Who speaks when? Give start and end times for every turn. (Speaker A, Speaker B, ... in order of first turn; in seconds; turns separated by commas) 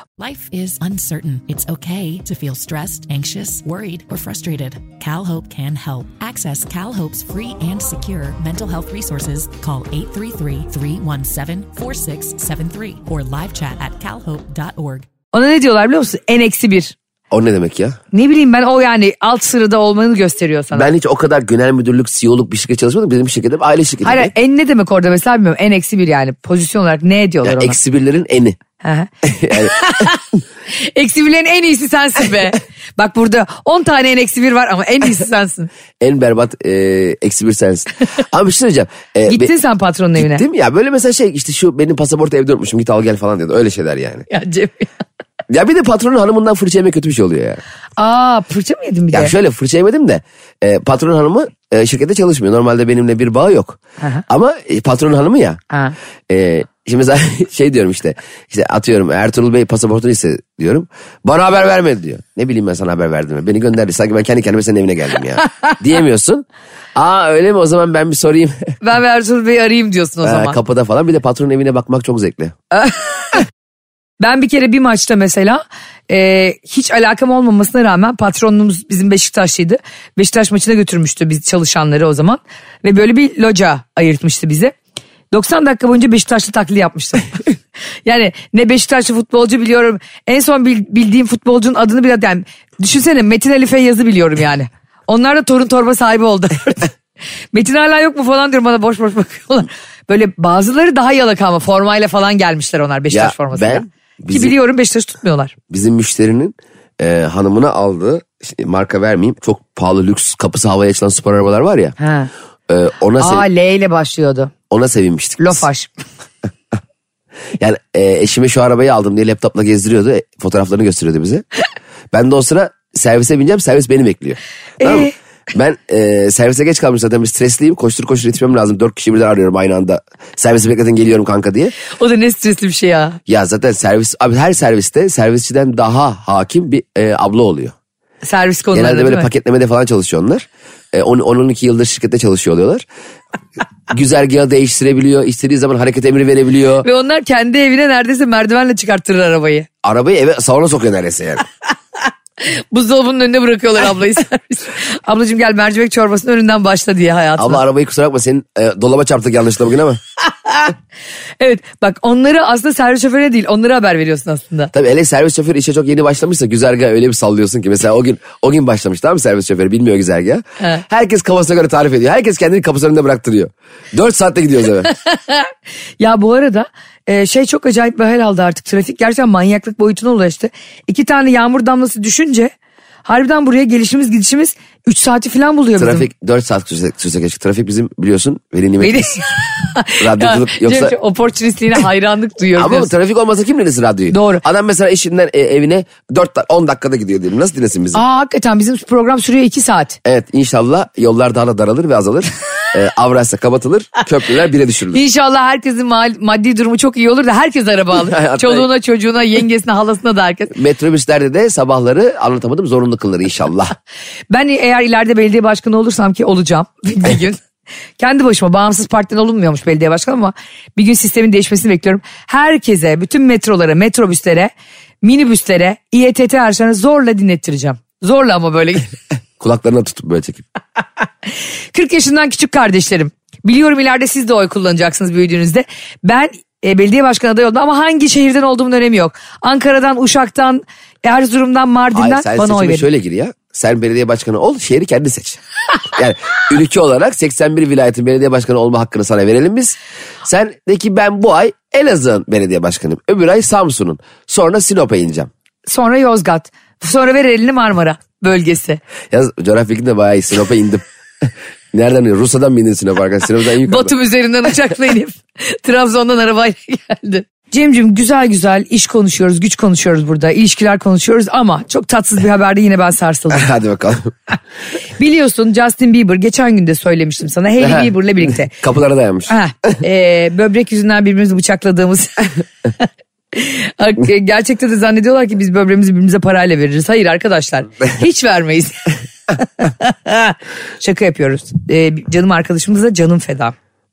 Speaker A: 0.2-15.1, Speaker B: 15.3-16.9, Speaker C: 17.3-18.0, Speaker B: 18.1-20.9, Speaker C: 20.7-24.3, Speaker B: 24.0-27.8, Speaker C: 27.4-28.6, Speaker B: 28.8-35.7, Speaker C: 29.2-29.8, Speaker C: 36.0-39.5, Speaker B: 39.3-40.5, Speaker C: 40.2-44.3, Speaker B: 44.3-44.9, Speaker C: 45.5-47.6, Speaker B: 48.0-49.3, Speaker C: 49.1-55.6, Speaker B: 55.7-56.0, Speaker C: 56.3-68.8, Speaker B: 68.8-70.6, Speaker C: 70.2-72.6, Speaker B: 72.7-73.5, Speaker B: 74.2-84.7, Speaker B: 85.3-87.5, Speaker B: 88.0-96.9, Speaker B: 97.5-105.5, Speaker C: 103.1-104.5, Speaker C: 105.7-112.0, Speaker B: 112.0-112.3, Speaker C: 112.7-113.5, Speaker B: 113.2-114.5, Speaker C: 114.7-115.7, Speaker B: 115.4-115.9, Speaker C: 117.6-121.5, Speaker C: 122.1-131.7, Speaker B: 124.8-125.1, Speaker B: 131.9-133.2, Speaker C: 133.3-137.7, Speaker B: 138.2-139.3, Speaker C: 138.7-142.8, Speaker C: 143.9-146.9, Speaker B: 146.8-149.7, Speaker C: 149.8-151.4, Speaker B: 152.4-157.6, Speaker C: 157.4-160.0, Speaker B: 160.5-160.7, Speaker B: 161.4-164.7, Speaker C: 164.7-174.9, Speaker B: 174.9-182.5, Speaker B: 183.1-186.1, Speaker C: 185.8-189.2, Speaker B: 188.8-192.9, Speaker C: 190.0-191.0, Speaker C: 192.6-198.0, Speaker B: 194.1-194.4, Speaker B: 197.9-200.0, Speaker C: 200.1-205.0, Speaker B: 204.9-210.5, Speaker C: 208.0-208.7, Speaker C: 210.5-213.8, Speaker B: 214.3-217.4, Speaker B: 218.0-228.9, Speaker C: 229.4-230.4, Speaker B: 231.7-242.9, Speaker C: 241.9-245.4, Speaker C: 245.9-255.3, Speaker B: 255.7-258.8, Speaker C: 259.1-263.9, Speaker B: 263.6-273.5, Speaker C: 273.3-274.1, Speaker B: 275.0-278.5, Speaker C: 277.6-279.8, Speaker B: 279.3-282.4, Speaker B: 283.3-293.6